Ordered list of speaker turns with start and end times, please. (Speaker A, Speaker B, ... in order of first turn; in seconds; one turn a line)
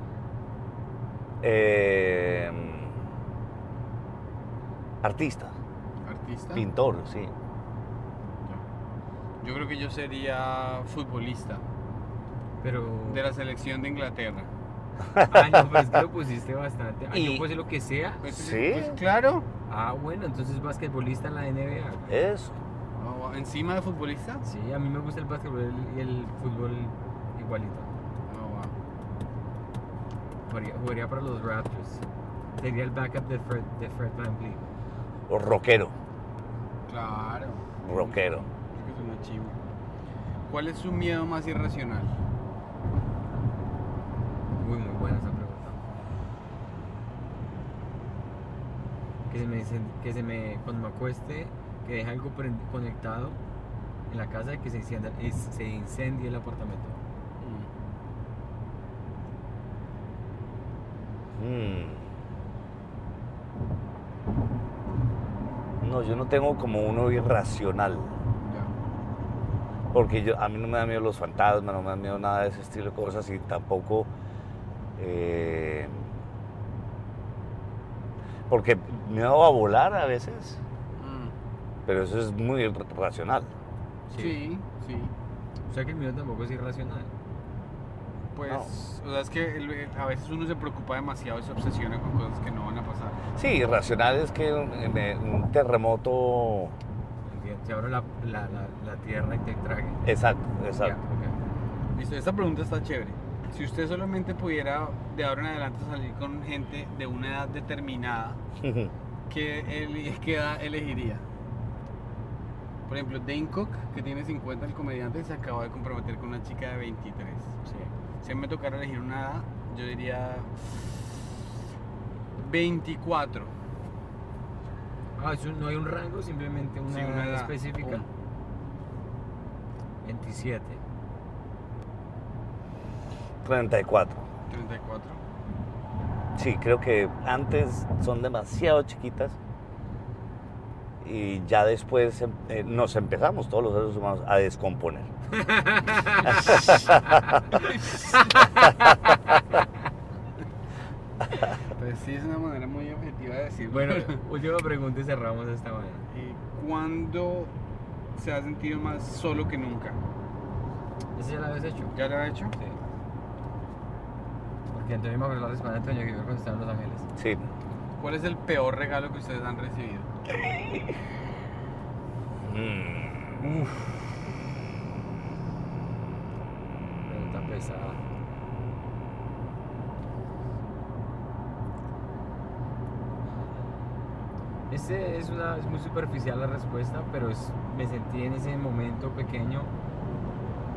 Speaker A: 1.4-2.9
Speaker A: 5.0-5.5
Speaker B: 6.0-6.6
Speaker A: 6.5-7.3
Speaker B: 9.4-11.6
Speaker C: 12.6-13.2
Speaker B: 13.1-14.5
Speaker A: 15.0-15.9
Speaker C: 15.3-18.3
Speaker A: 17.1-17.4
Speaker B: 18.2-19.4
Speaker A: 18.3-19.0
Speaker C: 19.7-22.1
Speaker A: 22.1-22.6
Speaker B: 23.0-24.4
Speaker C: 24.4-27.9
Speaker B: 28.3-28.7
Speaker C: 30.5-32.0
Speaker C: 32.6-34.7
Speaker A: 35.3-35.9
Speaker B: 36.9-39.5
Speaker A: 37.8-38.5
Speaker B: 40.5-42.1
Speaker C: 44.6-45.8
Speaker C: 49.3-53.4
Speaker C: 54.1-57.0
Speaker B: 57.4-57.7
Speaker A: 61.4-62.0
Speaker A: 65.8-68.1
Speaker B: 68.4-68.7
Speaker A: 69.9-74.1
Speaker A: 75.0-76.1
Speaker A: 78.5-80.6
Speaker B: 81.0-81.3
Speaker A: 81.8-83.5
Speaker C: 84.1-84.4
Speaker B: 84.1-85.1
Speaker C: 85.7-87.1
Speaker B: 88.3-93.2
Speaker A: 93.3-96.7
Speaker C: 97.3-100.1
Speaker A: 100.0-101.0
Speaker C: 100.8-101.3
Speaker B: 101.9-108.4
Speaker A: 108.6-108.9
Speaker B: 109.3-111.2
Speaker B: 112.9-117.5
Speaker C: 117.6-117.9
Speaker B: 118.2-121.0
Speaker B: 122.4-123.5
Speaker C: 125.2-128.0
Speaker B: 126.9-128.1
Speaker C: 130.0-130.8
Speaker A: 133.4-134.2
Speaker B: 134.5-135.2
Speaker A: 136.3-139.3
Speaker A: 141.0-145.1
Speaker C: 145.3-147.6
Speaker A: 146.5-147.2
Speaker C: 148.3-149.2
Speaker B: 151.8-154.2
Speaker C: 153.7-156.0
Speaker B: 156.1-157.5
Speaker B: 158.2-160.0
Speaker C: 161.1-161.9
Speaker B: 161.9-162.5
Speaker C: 164.7-167.1
Speaker A: 167.2-167.4
Speaker B: 168.0-170.1
Speaker A: 170.3-170.9
Speaker A: 172.4-173.4
Speaker C: 177.1-178.0
Speaker C: 184.7-189.7